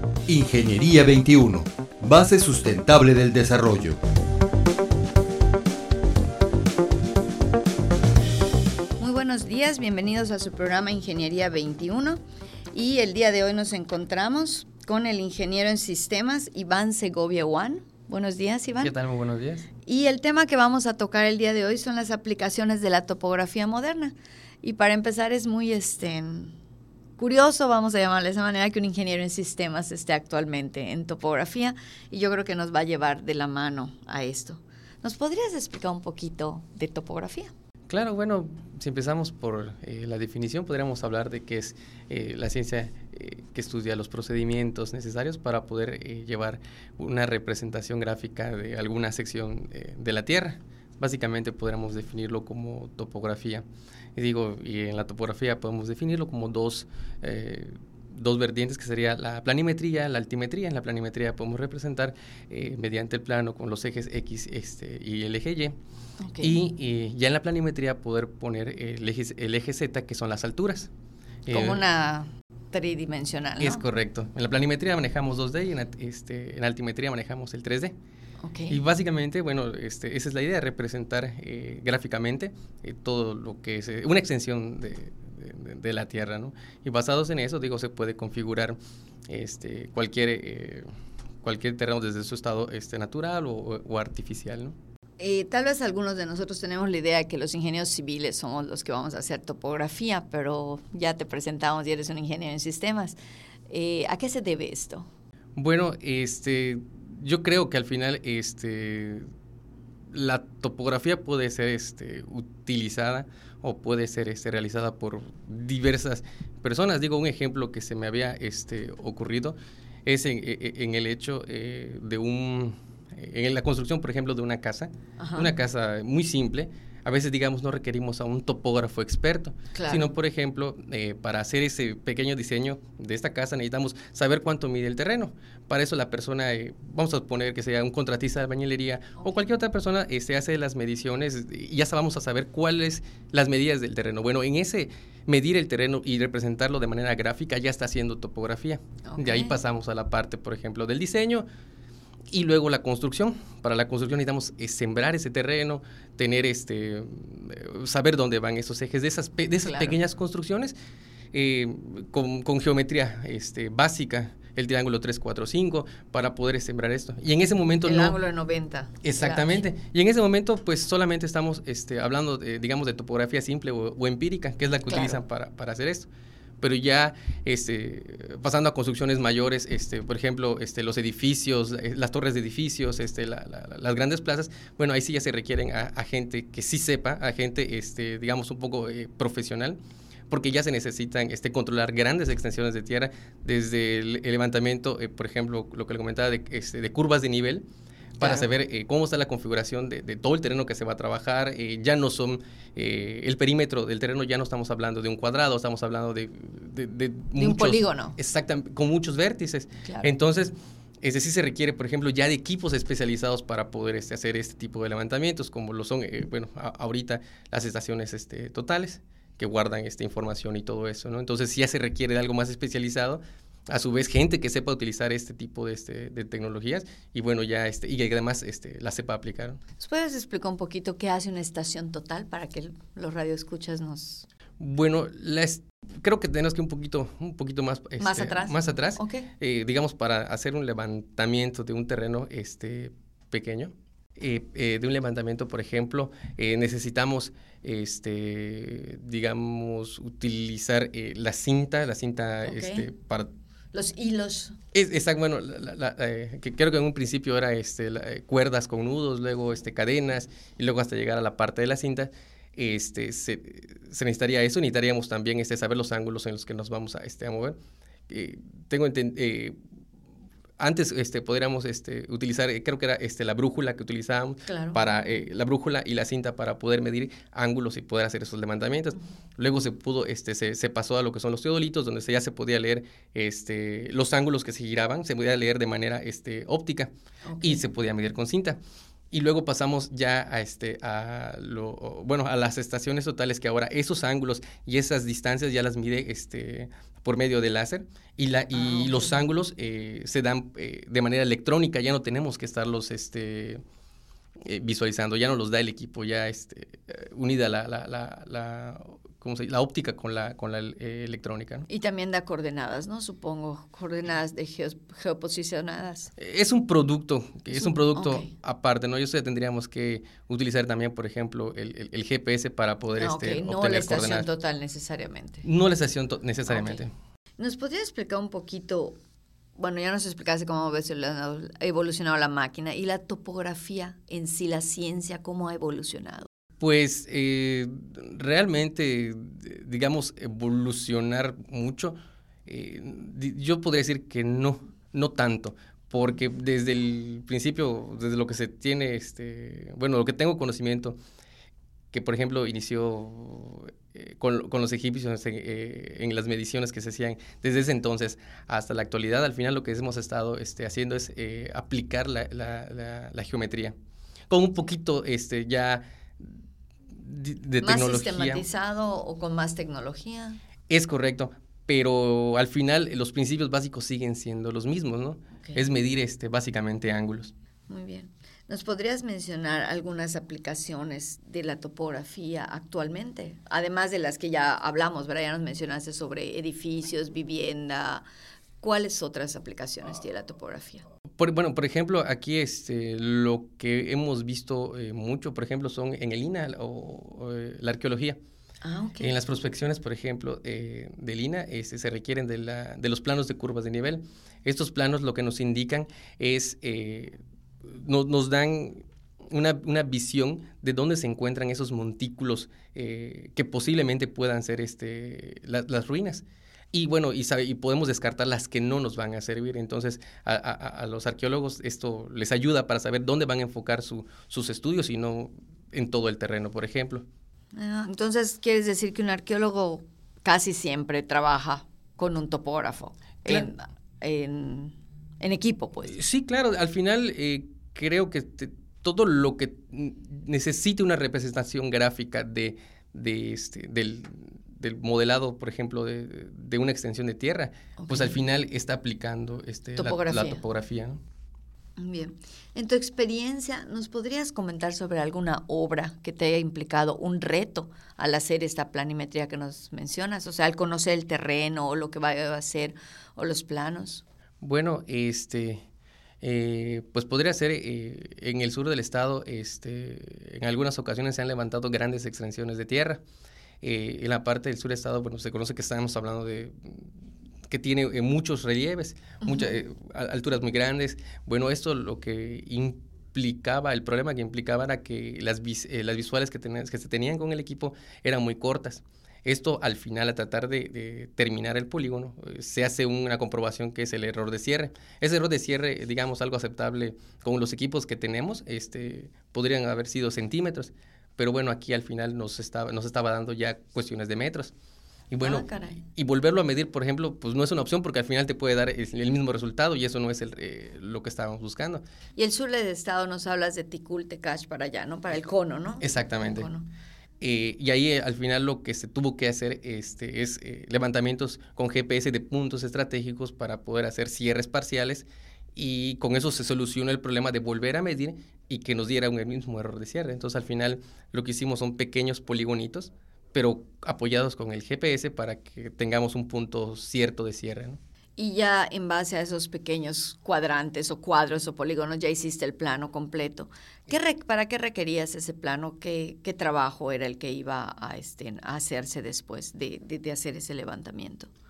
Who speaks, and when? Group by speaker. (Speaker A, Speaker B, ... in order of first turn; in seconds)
Speaker A: 0.3-4.0
Speaker B: 9.0-12.2, 12.7-18.9, 19.9-26.5, 27.2-37.5, 66.2-66.6, 71.5-73.8, 78.4-78.8, 95.2-103.2, 103.7-105.1, 125.2-125.5, 129.7-130.1, 149.1-149.6, 159.6-160.0, 167.8-169.7, 174.9-175.2, 198.2-198.5, 207.4-208.2, 209.8-210.1, 229.8-234.3, 238.0-239.3, 252.4-252.9, 253.7-254.6, 274.5-274.8, 287.3-287.6, 298.5-299.2, 311.7-316.1, 317.5-318.3, 323.0-325.4, 326.5-326.8, 327.4-329.0, 329.6-336.3, 367.6-370.4, 375.4-375.7, 377.7-388.1, 388.6-390.9, 398.6-399.1, 427.5-435.9, 447.8-448.2, 449.8-450.4, 451.8-464.0, 479.2-479.6, 505.2-505.8, 512.2-516.7, 538.2-551.3
Speaker C: 18.8-19.7, 37.9-65.8, 66.4-70.9, 71.5-71.8, 73.6-78.0, 78.7-88.8, 89.3-90.9, 91.4-94.8, 105.5-109.3, 110.1-151.5, 152.3-160.8, 161.3-168.2, 169.0-176.1, 176.6-189.8, 190.3-197.7, 198.2-229.6, 234.6-253.3, 254.7-267.6, 268.1-269.6, 270.6-288.6, 289.1-303.6, 304.4-311.7, 316.2-324.3, 325.4-326.9, 336.6-351.0, 351.9-363.8, 364.3-366.4, 366.9-368.4, 370.7-377.3, 391.2-398.2, 399.0-427.1, 435.8-451.0, 464.4-465.6, 466.2-473.0, 473.6-476.9, 477.5-504.5, 505.1-511.8, 515.8-516.5, 517.2-537.8